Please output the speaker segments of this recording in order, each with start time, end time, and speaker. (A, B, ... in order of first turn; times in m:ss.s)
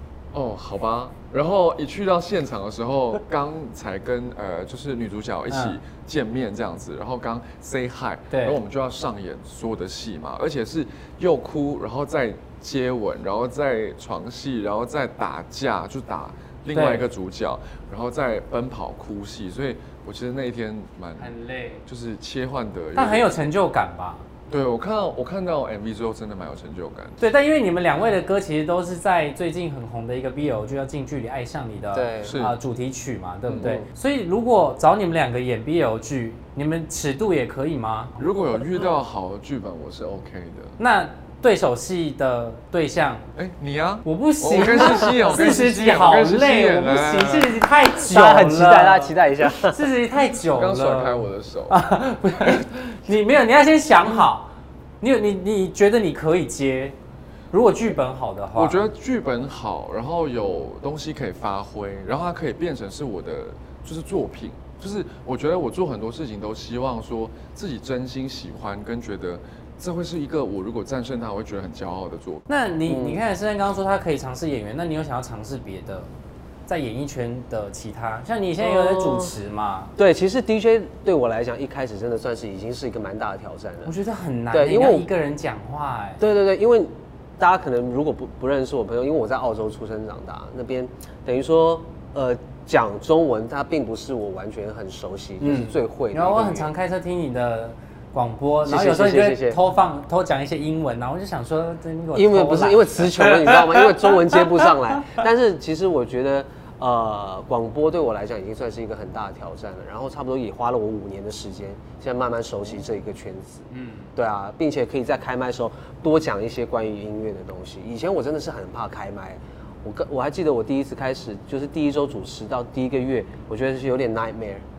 0:00.3-0:21.3 A
0:05.5-0:05.8 B
0:08.3-0:08.6 B
0:16.7-0:17.0 B
0:21.2-0:21.8 B
0:21.8-0:23.3 A
0:23.0-0:24.2 B
0:24.5-0:27.2 A
0:27.2-0:38.2 B
0:31.9-0:32.3 C
0:32.2-0:32.5 A
0:33.5-0:33.8 A
0:33.6-0:33.9 C
0:38.2-0:40.8 A
0:40.8-0:43.2 B
0:43.3-0:47.6 A
0:44.0-0:56.9 B
0:47.9-0:49.8 C
0:50.5-0:51.8 A
0:57.5-0:58.8 B
0:58.6-1:12.4 A
1:12.5-1:16.1 B
1:12.8-1:13.2 C
1:16.7-1:19.9 B
1:18.6-1:19.3 C
1:20.0-1:23.9 C
1:23.8-1:26.2 B
1:24.5-1:25.1 C
1:26.2-1:36.7 C
1:35.4-1:43.9 B
1:38.6-1:39.6 C
1:42.1-2:04.6 C
1:53.7-1:54.1 B